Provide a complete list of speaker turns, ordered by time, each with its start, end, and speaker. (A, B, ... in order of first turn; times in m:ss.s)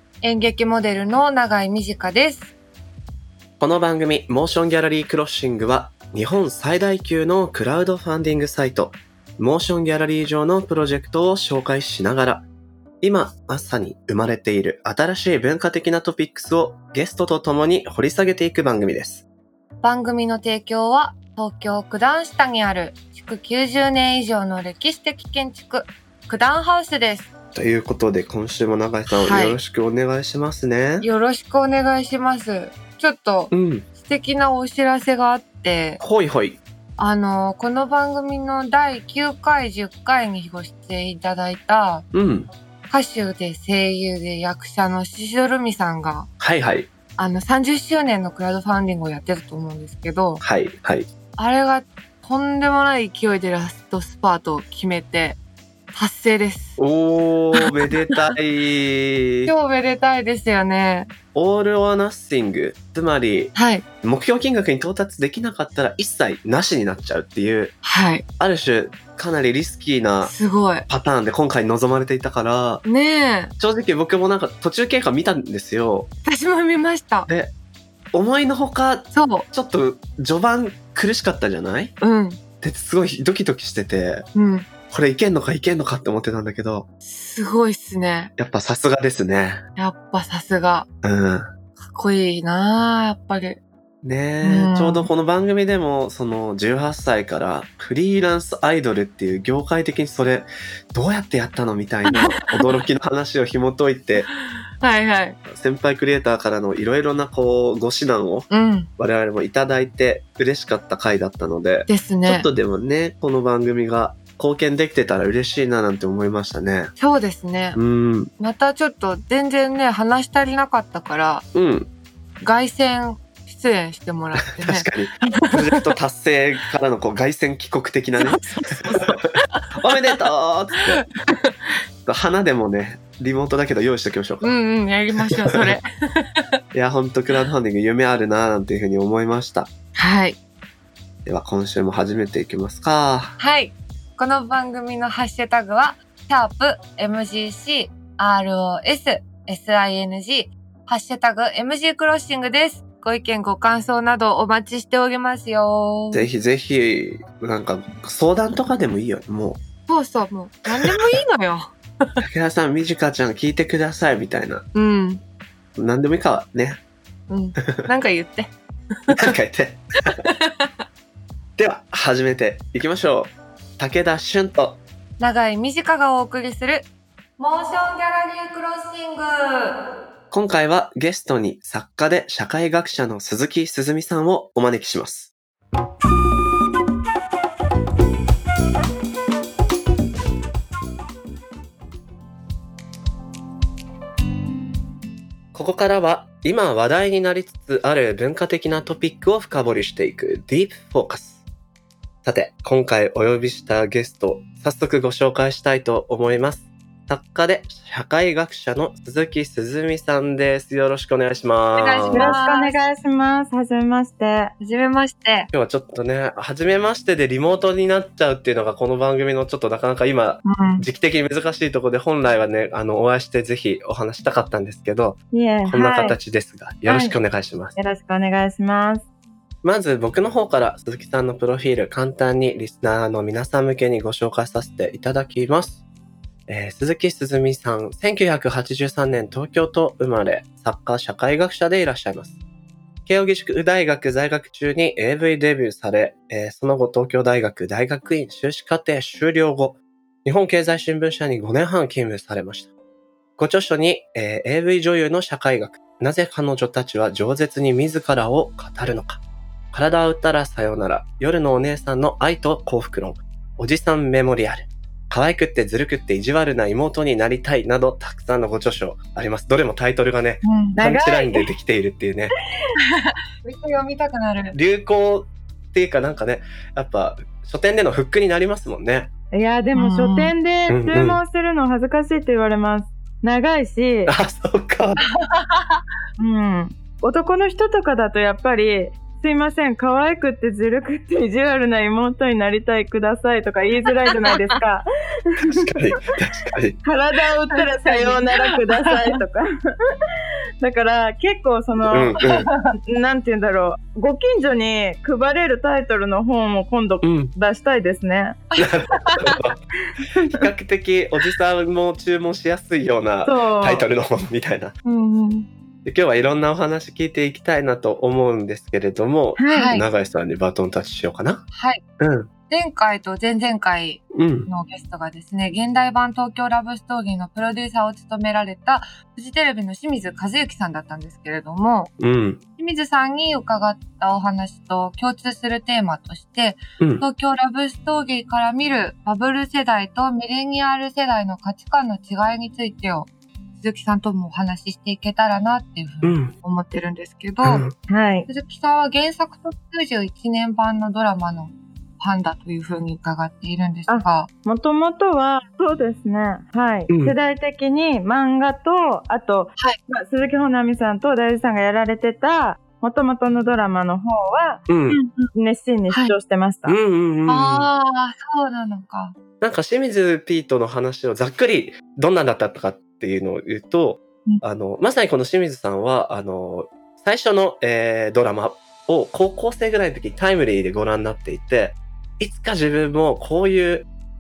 0:00.2-0:02.5 A
0:03.6-0:12.5 B
0:13.0-0:19.3 B
0:19.8-0:27.3 A
0:27.6-0:31.1 B
0:29.1-0:29.6 A
0:31.0-0:36.0 A
0:33.5-0:33.9 B
0:36.0-0:36.6 B
0:37.0-0:42.1 A
0:42.1-0:42.5 B
0:42.9-0:46.3 A
0:46.4-0:46.9 B
0:47.2-0:50.4 A
0:50.4-0:51.1 B
0:51.4-0:55.4 A
0:55.9-0:56.8 A
0:56.8-0:59.5 B
0:57.5-0:58.2 A
0:59.5-1:01.1 A
1:01.3-1:07.8 B
1:03.6-1:03.8 A
1:07.8-1:08.2 A
1:08.4-1:12.8 B
1:10.2-1:10.9 A
1:12.8-1:13.5 A
1:13.6-1:16.1 B
1:16.2-1:17.3 A
1:17.3-1:17.5 B
1:18.1-1:22.0 B
1:19.1-1:19.5 A
1:22.0-1:22.4 A
1:22.6-1:24.3 B
1:24.3-1:24.7 A
1:24.9-1:26.9 B
1:27.0-1:28.3 A
1:28.4-1:29.6 B
1:29.8-1:30.9 A
1:31.0-1:31.5 B
1:31.8-1:33.6 A
1:34.0-1:44.3 B
1:34.4-1:35.1 A
1:44.8-1:45.4 A
1:45.5-1:56.9 B
1:48.5-1:48.9 A
1:51.9-1:52.5 A
1:57.0-1:57.8 A
1:57.8-1:58.3 B
1:58.4-2:01.5 A
2:01.5-2:01.9 B
2:02.4-2:04.9 A
2:04.4-2:11.1 B
2:05.4-2:05.8 A
2:08.2-2:10.2 A
2:11.0-2:11.7 A
2:12.1-2:14.5 B
2:14.4-2:16.5 A
2:15.3-2:15.7 B
2:16.7-2:19.7 B
2:20.0-2:20.4 A
2:21.3-2:23.4 B
2:23.4-2:36.3 A
2:36.1-2:39.6 B
2:39.9-2:42.2 A
2:40.8-2:41.2 B
2:42.2-2:44.7 B
2:44.7-2:45.2 A
2:45.8-2:46.8 B
2:47.3-2:48.5 A
2:47.6-2:47.9 B
2:49.0-2:49.3 A
2:49.1-2:50.2 B
2:50.1-2:50.7 A
2:51.6-2:54.8 B
2:55.2-2:56.9 A
2:57.4-2:59.8 A
3:00.3-3:05.3 B
3:15.5-3:21.4 B
3:22.2-3:32.4 B
3:31.8-3:32.8 A
3:32.1-3:34.5 C
3:34.6-3:35.5 A
3:35.5-3:47.8 B
3:40.4-3:40.8 A
3:45.3-3:46.2 C
3:46.9-3:47.2 C
3:47.8-3:49.0 C
3:49.6-3:55.8 B
3:56.5-4:02.4 B
4:03.1-4:12.7 B
4:13.4-4:19.2 B
4:19.7-4:32.3 B
4:30.4-4:31.2 A
4:30.8-4:31.4 C
4:32.8-4:34.6 A
4:34.5-4:39.1 B
4:39.3-4:44.1 C
4:39.8-4:40.3 A
4:40.7-4:41.2 B
4:44.1-4:45.0 B
4:45.2-4:45.7 A
4:46.2-4:55.7 C
4:55.5-4:56.8 B
4:56.8-4:59.5 C
4:57.5-4:59.0 A
5:00.6-5:08.4 C
5:01.9-5:02.5 B
5:07.0-5:07.3 B
5:08.6-5:09.4 A
5:08.6-5:09.6 B
5:10.2-5:10.5 C
5:10.3-5:14.8 B
5:13.2-5:13.9 C
5:14.8-5:15.5 A
5:15.8-5:21.4 B
5:19.4-5:19.8 C
5:19.5-5:19.8 A
5:21.5-5:21.8 A
5:22.0-5:22.3 B
5:22.5-5:31.9 A
5:24.1-5:24.5 B
5:32.0-5:32.4 B
5:32.6-5:47.7 A
5:36.8-5:37.0 B
5:46.0-5:46.3 B
5:47.4-5:47.8 B
5:47.9-5:48.3 C
5:48.3-5:54.3 A
5:53.9-6:06.8 C
5:56.9-5:57.2 B
6:04.7-6:05.0 B
6:05.9-6:06.2 A
6:06.7-6:07.7 B
6:07.3-6:09.2 A
6:09.4-6:23.9 B